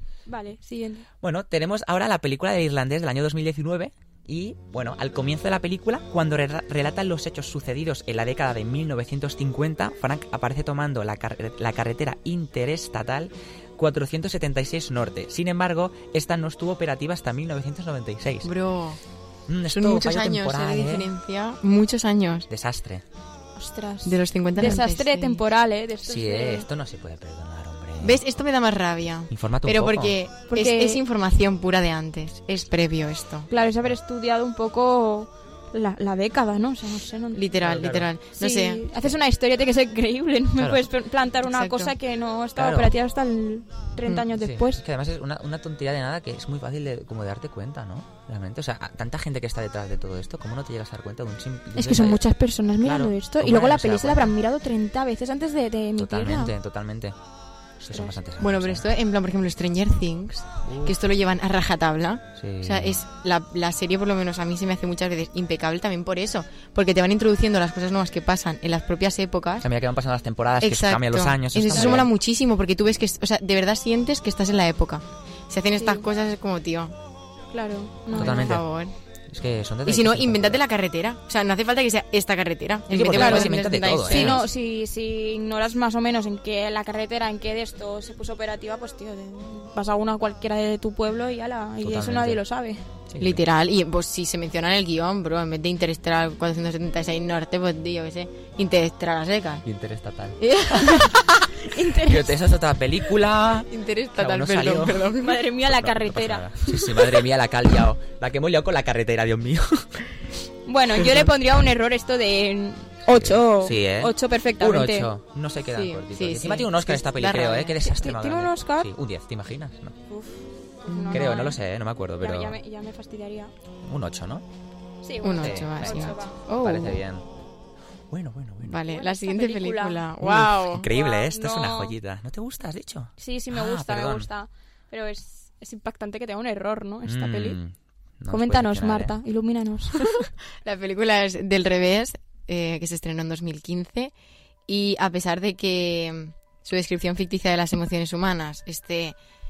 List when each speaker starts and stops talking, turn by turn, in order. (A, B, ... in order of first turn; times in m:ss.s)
0:00.3-0:01.1 A
0:01.2-0:18.5 B
0:18.4-0:19.0 C
0:19.5-0:21.1 B
0:19.7-0:22.5 C
0:22.5-0:23.0 B
0:23.6-0:26.6 A
0:24.0-0:25.4 C
0:26.0-0:28.2 B
0:28.0-0:33.5 C
0:29.3-0:30.2 B
0:30.5-0:31.0 A
0:33.5-0:37.4 A
0:37.3-0:39.1 C
0:37.6-0:38.1 B
0:38.4-0:44.8 A
0:40.6-0:40.8 B
0:41.5-0:41.9 C
0:42.6-0:42.9 B
0:44.4-0:52.2 B
0:51.7-0:56.5 A
0:52.8-0:54.3 B
0:56.0-0:57.2 B
0:57.8-0:58.8 B
0:58.4-1:09.7 C
1:00.6-1:01.0 B
1:02.4-1:03.0 B
1:09.6-1:12.1 B
1:10.6-1:16.9 C
1:15.8-1:16.1 A
1:17.5-1:18.5 A
1:18.1-1:18.9 C
1:18.1-1:18.6 B
1:19.3-1:20.6 B
1:19.8-1:24.4 C
1:22.9-1:24.4 B
1:23.1-1:23.5 A
1:24.0-1:32.8 A
1:31.8-1:32.4 B
1:33.1-1:33.4 B
1:33.2-1:39.6 C
1:39.6-1:41.1 B
1:40.4-1:41.5 C
1:41.6-1:42.4 A
1:42.0-1:50.0 B
1:43.7-1:45.4 C
1:45.2-1:47.1 A
1:50.6-1:55.1 A
1:53.1-2:00.0 B
1:55.7-1:57.8 C
1:57.8-1:58.9 A
2:00.1-2:01.6 A
2:00.9-2:01.4 C
2:01.1-2:02.6 B
2:02.2-2:03.5 A
2:03.8-2:04.4 B
2:05.0-2:06.4 A
2:05.2-2:07.0 C
2:05.4-2:07.2 B
2:08.1-2:08.8 B
2:08.6-2:10.9 C
2:08.8-2:10.0 A
2:10.2-2:14.3 B
2:10.8-2:11.9 A
2:13.2-2:17.6 A
2:17.0-2:19.1 B
2:18.3-2:20.1 A
2:20.6-2:24.1 C
2:24.7-2:29.2 C